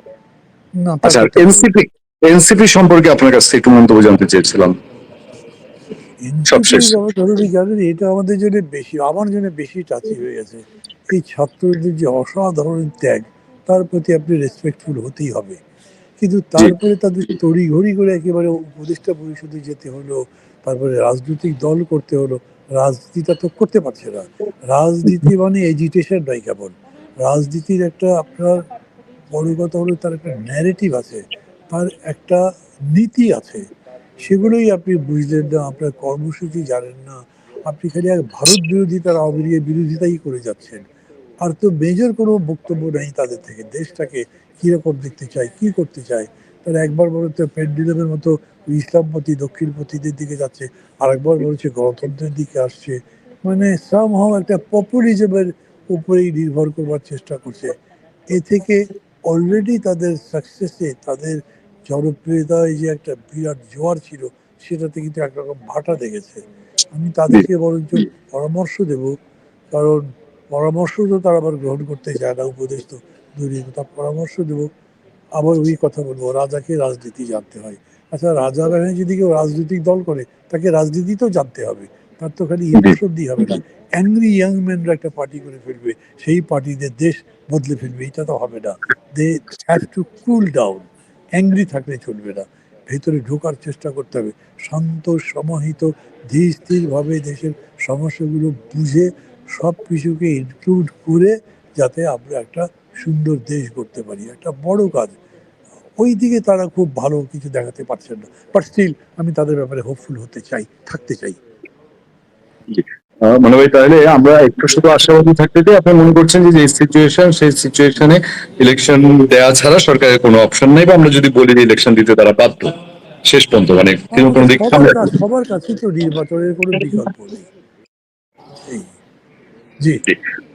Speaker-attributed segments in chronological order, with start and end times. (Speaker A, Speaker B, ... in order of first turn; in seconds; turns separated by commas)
Speaker A: 0.8-1.7, Speaker B: 1.1-4.8, Speaker A: 6.2-15.6, Speaker B: 6.5-7.0, Speaker A: 16.2-28.6, Speaker A: 29.3-33.6, Speaker A: 34.2-40.9, Speaker A: 41.4-57.7, Speaker A: 58.3-66.4, Speaker A: 67.0-69.2, Speaker A: 69.7-74.7, Speaker A: 75.4-90.9, Speaker A: 91.4-105.2, Speaker A: 106.0-111.4, Speaker B: 112.7-122.7, Speaker B: 123.3-125.1, Speaker A: 124.1-127.5